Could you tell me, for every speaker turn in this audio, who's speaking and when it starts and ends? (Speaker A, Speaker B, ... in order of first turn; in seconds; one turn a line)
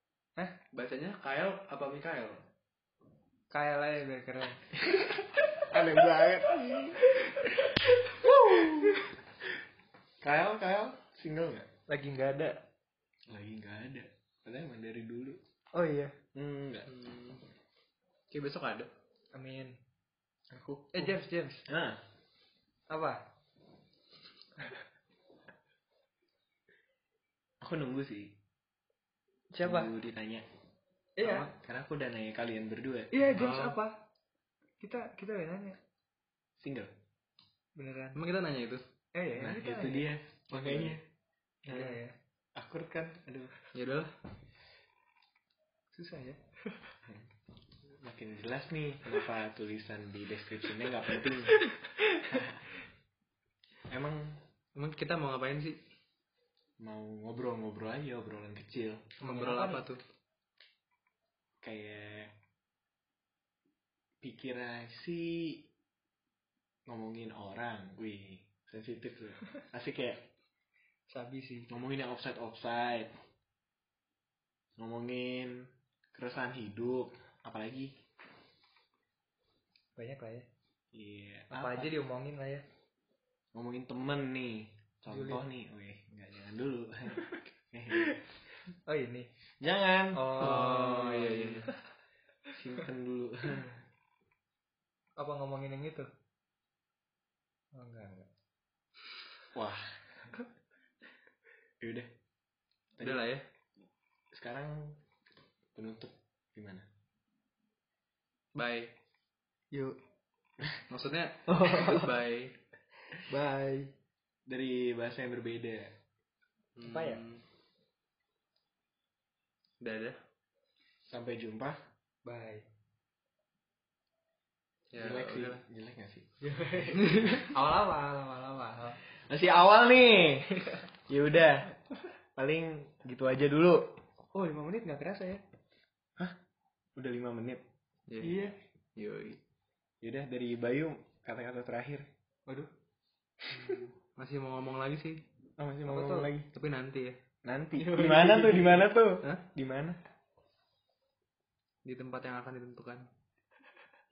Speaker A: 0.7-2.4
Speaker B: 3.5-4.8
Speaker C: 4.9-7.3
Speaker C: 8.2-9.1
Speaker B: 8.2-8.9
Speaker C: 10.2-11.7
Speaker B: 11.9-12.6
Speaker C: 13.3-15.4
Speaker B: 15.7-16.1
Speaker C: 16.3-16.9
Speaker A: 16.9-17.4
Speaker A: 18.3-18.9
Speaker B: 19.3-19.8
Speaker C: 20.5-22.0
Speaker B: 20.9-21.6
Speaker B: 22.9-23.2
Speaker C: 27.6-28.3
Speaker B: 29.5-29.9
Speaker C: 29.6-30.4
Speaker B: 31.2-31.5
Speaker C: 31.2-33.2
Speaker B: 33.1-34.0
Speaker A: 33.3-33.8
Speaker B: 34.8-35.8
Speaker C: 36.6-36.9
Speaker B: 37.7-38.2
Speaker A: 38.1-38.8
Speaker B: 39.1-40.1
Speaker C: 39.4-41.0
Speaker C: 41.6-42.0
Speaker B: 41.7-42.1
Speaker C: 42.5-43.5
Speaker A: 43.7-44.1
Speaker B: 45.9-46.9
Speaker C: 47.8-51.6
Speaker B: 51.8-52.4
Speaker C: 52.3-52.6
Speaker C: 53.9-54.4
Speaker A: 54.7-55.8
Speaker C: 56.8-59.1
Speaker A: 59.2-60.0
Speaker B: 59.2-59.9
Speaker C: 61.6-62.3
Speaker C: 64.2-65.7
Speaker C: 66.9-70.3
Speaker B: 71.1-71.7
Speaker C: 71.7-73.1
Speaker C: 74.8-77.9
Speaker B: 80.0-80.5
Speaker C: 80.9-81.9
Speaker B: 81.5-82.7
Speaker C: 83.5-88.2
Speaker B: 85.1-85.4
Speaker B: 88.8-89.3
Speaker C: 89.6-91.1
Speaker B: 90.1-91.3
Speaker A: 90.4-91.7
Speaker C: 92.5-93.8
Speaker B: 95.2-96.1
Speaker B: 97.7-98.3
Speaker C: 99.5-100.3
Speaker C: 101.8-102.1
Speaker C: 103.0-103.2
Speaker A: 103.0-103.4
Speaker C: 104.3-105.0
Speaker C: 105.7-106.8
Speaker A: 108.5-108.9
Speaker B: 109.7-110.0
Speaker A: 110.9-112.5
Speaker B: 111.5-112.1
Speaker B: 113.3-113.9
Speaker C: 114.5-115.9
Speaker A: 116.8-117.4
Speaker B: 116.8-117.2
Speaker A: 119.8-120.2
Speaker C: 121.1-121.8
Speaker B: 122.2-122.7
Speaker A: 124.9-125.6
Speaker C: 125.0-126.3
Speaker B: 126.4-129.0
Speaker C: 126.9-127.4
Speaker C: 129.0-131.8
Speaker C: 132.3-134.0
Speaker B: 134.3-135.4
Speaker C: 136.9-137.6
Speaker A: 138.1-139.4
Speaker B: 138.2-138.6
Speaker C: 140.0-142.1
Speaker B: 142.4-142.7
Speaker A: 143.6-145.2
Speaker C: 145.6-146.5
Speaker B: 145.9-146.3
Speaker A: 146.5-147.2
Speaker C: 147.4-150.0
Speaker B: 147.8-148.9
Speaker A: 151.8-153.1